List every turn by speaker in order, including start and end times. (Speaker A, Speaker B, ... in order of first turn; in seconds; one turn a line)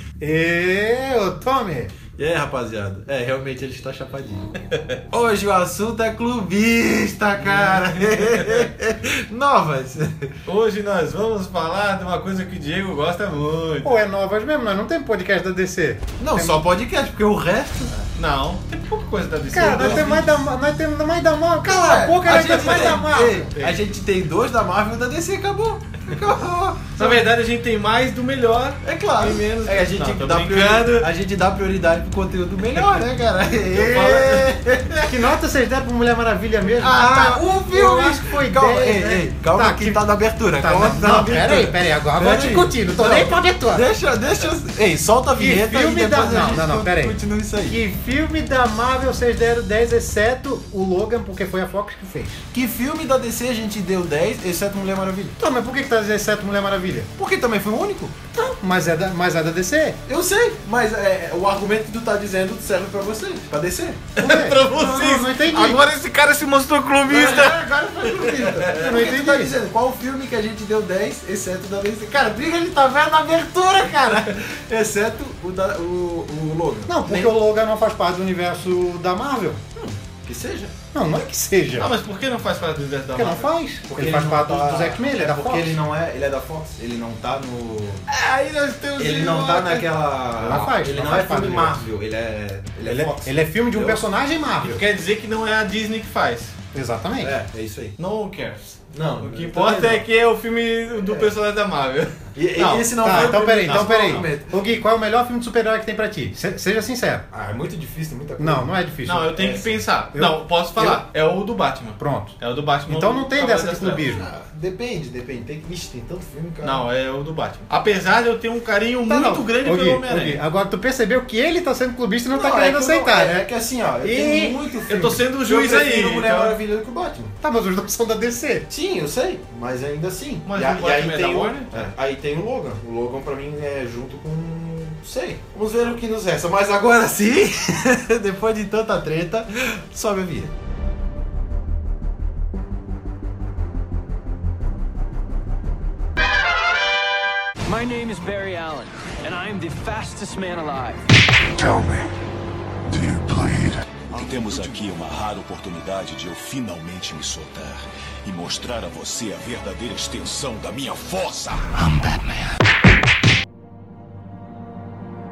Speaker A: 0.2-1.9
Speaker B: 2.2-10.3
Speaker C: 7.5-8.7
Speaker C: 10.4-14.0
Speaker A: 13.8-16.6
Speaker B: 16.2-18.1
Speaker C: 18.1-20.2
Speaker A: 19.5-23.5
Speaker B: 19.6-20.1
Speaker B: 21.6-27.2
Speaker C: 22.4-23.0
Speaker C: 23.5-23.8
Speaker C: 27.0-31.1
Speaker B: 28.8-35.2
Speaker C: 33.7-34.6
Speaker A: 35.0-40.0
Speaker B: 36.8-47.8
Speaker A: 40.6-43.9
Speaker A: 45.4-52.4
Speaker B: 52.5-55.4
Speaker A: 55.4-57.1
Speaker B: 57.2-58.2
Speaker A: 58.3-60.0
Speaker B: 60.1-64.5
Speaker A: 64.2-65.8
Speaker C: 64.2-67.6
Speaker B: 67.1-77.3
Speaker C: 68.1-68.7
Speaker A: 68.7-69.5
Speaker A: 76.9-79.6
Speaker B: 79.8-80.9
Speaker A: 80.9-81.9
Speaker C: 81.8-83.5
Speaker A: 83.1-85.8
Speaker B: 83.9-88.0
Speaker C: 88.1-89.9
Speaker B: 89.0-94.1
Speaker A: 90.4-91.8
Speaker A: 92.8-94.8
Speaker C: 94.6-96.5
Speaker A: 96.7-97.3
Speaker B: 97.2-98.0
Speaker C: 98.0-104.2
Speaker B: 98.9-100.0
Speaker B: 101.0-101.3
Speaker B: 102.3-104.5
Speaker A: 103.0-107.2
Speaker B: 107.3-108.7
Speaker A: 108.4-109.4
Speaker C: 109.0-114.1
Speaker B: 109.3-109.8
Speaker A: 110.1-111.0
Speaker A: 112.0-112.3
Speaker A: 112.9-114.3
Speaker B: 114.0-116.8
Speaker C: 116.6-120.4
Speaker A: 119.1-123.5
Speaker B: 122.3-127.3
Speaker A: 124.0-124.6
Speaker C: 124.9-126.6
Speaker A: 127.4-128.7
Speaker B: 128.7-140.5
Speaker C: 130.4-131.9
Speaker D: 147.7-151.1
Speaker E: 151.4-152.1
Speaker E: 152.9-154.8
Speaker F: 154.1-161.8
Speaker E: 161.8-162.5